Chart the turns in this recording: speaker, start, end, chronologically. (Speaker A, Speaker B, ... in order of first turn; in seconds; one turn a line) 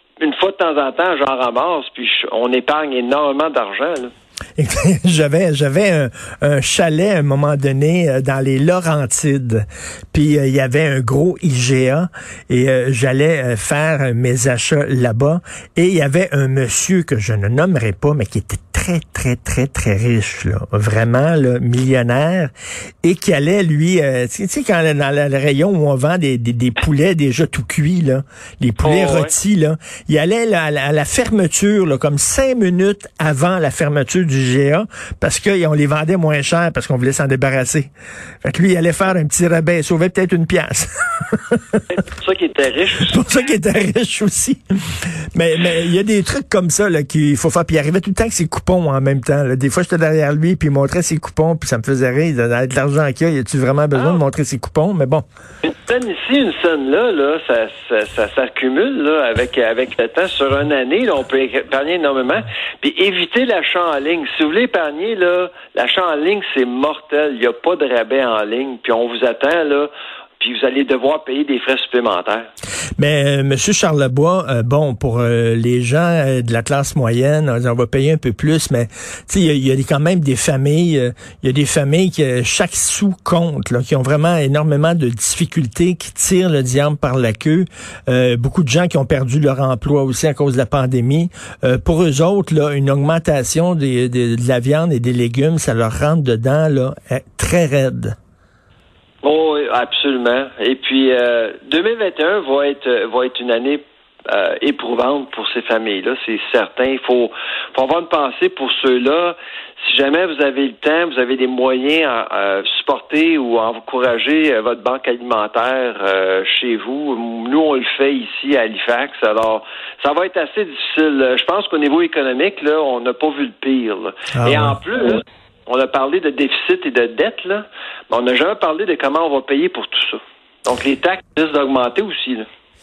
Speaker A: 0.2-4.1
Speaker B: 4.6-22.5
Speaker B: 23.0-37.9
Speaker A: 28.8-29.3
Speaker B: 38.4-41.9
Speaker A: 41.9-43.2
Speaker B: 43.0-55.2
Speaker A: 54.0-54.2
Speaker A: 55.6-72.5
Speaker B: 73.0-98.2
Speaker A: 99.2-132.5
Speaker B: 124.3-124.8